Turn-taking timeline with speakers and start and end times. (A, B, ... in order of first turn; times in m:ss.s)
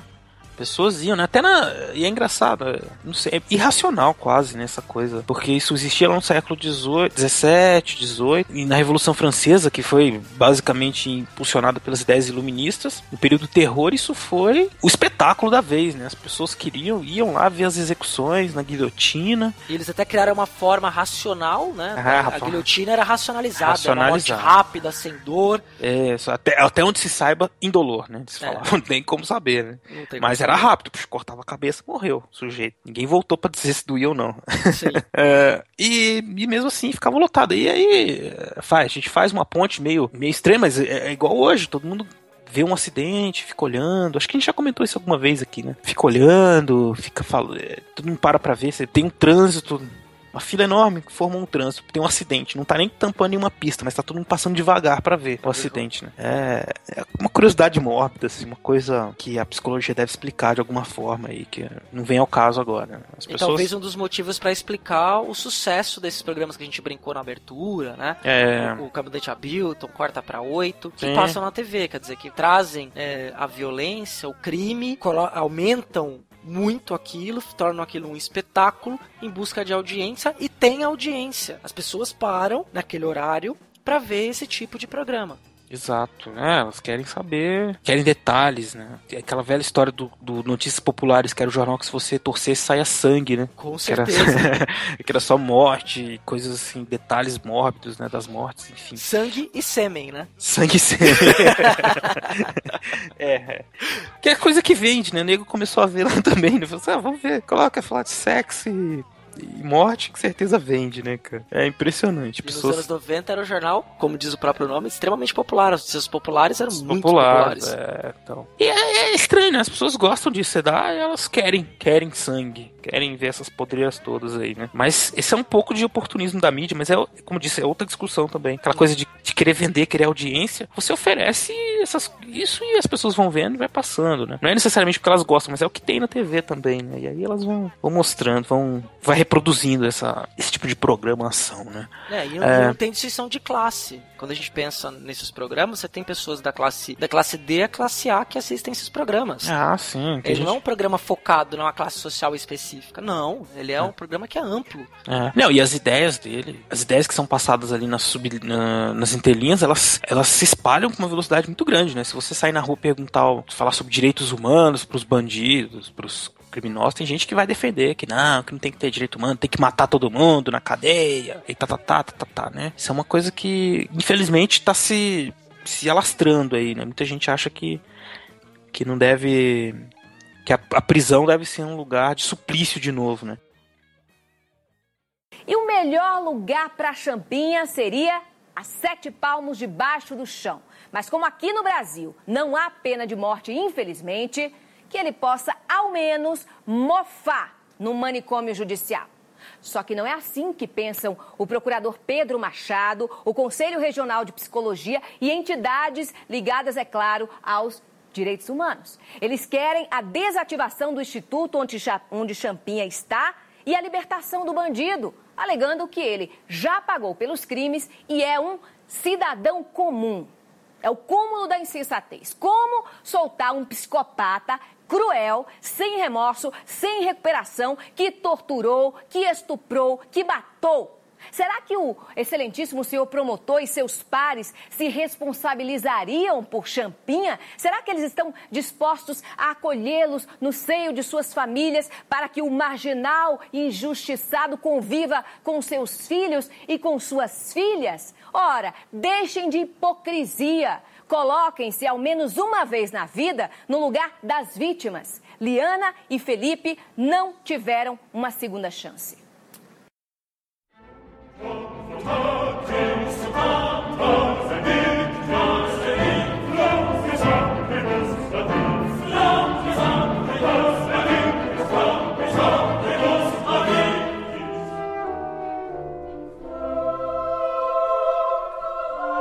0:00.6-0:19.6 A
0:19.7-0:25.6 B
0:22.0-0:22.7 A
0:23.6-0:24.6 A
0:25.8-1:03.7 A
0:28.4-0:28.6 B
0:29.9-0:30.7 B
0:34.7-0:35.0 B
0:55.4-0:55.8 B
1:03.3-1:25.4 B
1:08.2-1:08.8 A
1:11.0-1:11.4 A
1:25.7-1:39.0 A
1:33.6-1:34.6 B
1:39.0-1:40.3 B
1:40.4-1:43.7 A
1:41.0-1:42.2 B
1:44.2-1:52.8 A
1:52.4-1:57.7 B
1:56.7-2:22.8 A
2:22.1-2:29.5 B
2:29.4-2:30.6 A
2:30.2-2:34.9 B
2:35.1-2:57.8 A
2:58.7-2:59.9 A
3:00.4-3:03.4 A
3:05.5-3:19.1 C
3:19.6-3:40.3 C
3:40.8-4:19.2 C